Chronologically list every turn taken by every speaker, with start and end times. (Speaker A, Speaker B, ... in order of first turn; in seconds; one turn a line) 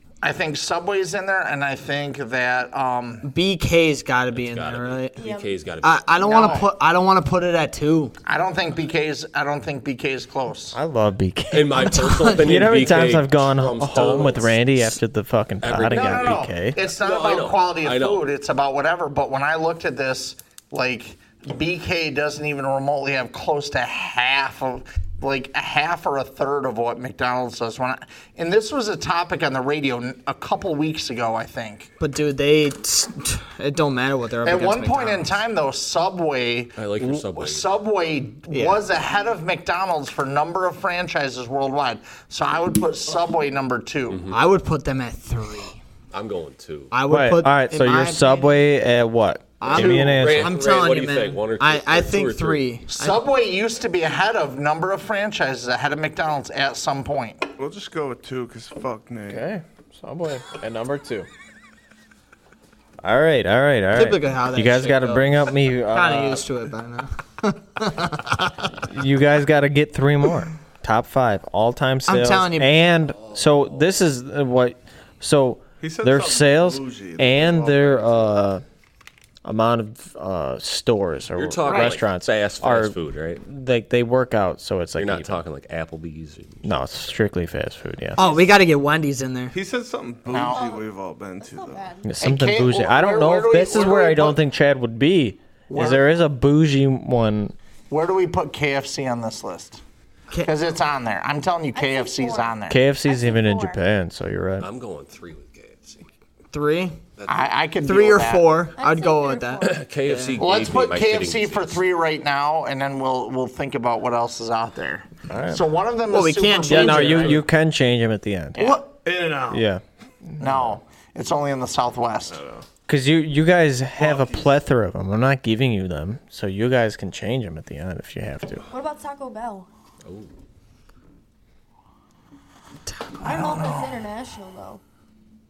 Speaker A: 0.2-3.3
Speaker B: 3.2-5.2
Speaker C: 4.3-6.5
Speaker D: 5.2-5.6
Speaker B: 5.8-8.2
Speaker A: 6.2-6.7
Speaker A: 8.2-10.8
Speaker E: 10.7-16.8
Speaker C: 11.5-14.9
Speaker B: 11.8-12.6
Speaker C: 15.6-18.2
Speaker A: 15.9-31.9
Speaker B: 32.0-35.4
Speaker A: 34.4-44.3
Speaker C: 36.8-37.7
Speaker B: 38.5-38.8
Speaker C: 44.1-44.4
Speaker B: 44.3-45.8
Speaker C: 46.1-46.9
Speaker B: 46.9-48.5
Speaker E: 47.1-50.6
Speaker B: 49.6-53.2
Speaker C: 49.7-52.7
Speaker A: 52.9-57.5
Speaker F: 57.6-59.4
Speaker E: 59.3-61.3
Speaker E: 63.0-66.5
Speaker B: 63.9-65.4
Speaker B: 65.9-68.7
Speaker E: 68.9-78.6
Speaker B: 72.1-72.7
Speaker F: 75.8-78.3
Speaker E: 79.5-85.4
Speaker C: 81.4-83.4
Speaker A: 81.7-82.0
Speaker C: 85.0-87.1
Speaker E: 86.6-88.2
Speaker B: 88.2-89.6
Speaker F: 89.5-91.9
Speaker A: 90.3-90.6
Speaker D: 90.4-90.9
Speaker D: 91.4-92.1
Speaker E: 92.0-97.5
Speaker A: 92.2-94.4
Speaker A: 95.7-96.1
Speaker A: 97.9-99.8
Speaker A: 100.4-102.8
Speaker D: 101.7-103.8
Speaker E: 102.7-104.7
Speaker C: 104.6-106.1
Speaker B: 106.5-107.0
Speaker C: 107.2-107.5
Speaker A: 107.3-108.5
Speaker B: 107.8-110.4
Speaker D: 108.8-109.9
Speaker C: 109.6-111.8
Speaker A: 110.4-117.4
Speaker E: 115.3-115.6
Speaker B: 116.1-117.4
Speaker E: 116.7-118.7
Speaker A: 118.6-118.8
Speaker B: 118.6-118.9
Speaker F: 119.0-119.6
Speaker E: 119.5-119.8
Speaker E: 120.4-120.8
Speaker A: 120.4-122.4
Speaker F: 122.3-122.7
Speaker E: 122.9-128.6
Speaker F: 124.0-124.5
Speaker D: 128.7-129.7
Speaker B: 132.9-133.6
Speaker D: 133.2-134.8
Speaker A: 133.3-133.8